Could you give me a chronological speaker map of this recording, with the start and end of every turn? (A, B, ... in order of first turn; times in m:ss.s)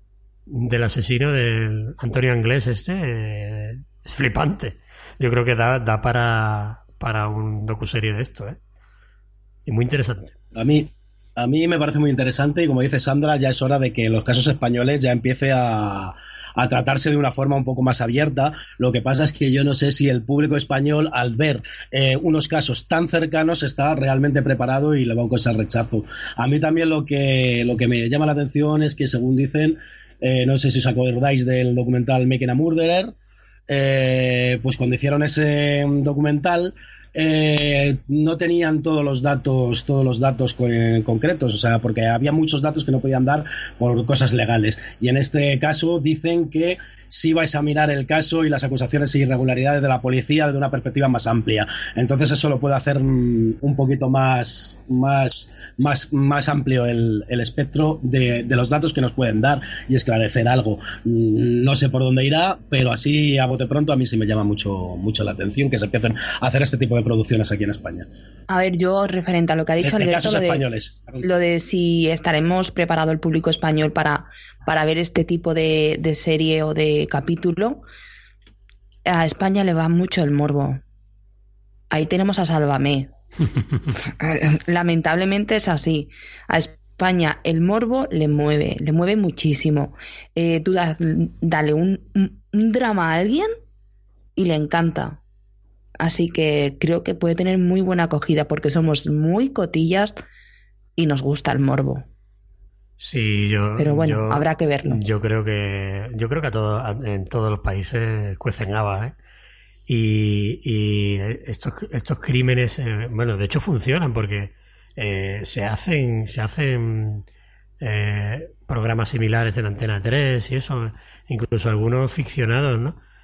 0:00.5-0:08.6 A
0:09.7-0:10.4 A
0:10.5-0:33.1 B
0:33.7-1:08.1 B
1:08.5-1:17.8 C
1:09.8-1:11.2 B
1:19.1-1:20.8 C
1:21.9-1:23.1 C
1:24.2-1:33.5 C
1:34.4-1:35.2 C
1:36.0-1:40.2 C
1:41.0-1:42.0 C
1:43.0-1:49.2 A
1:43.8-1:45.0 C
1:49.9-1:57.3 A
1:57.8-2:03.0 A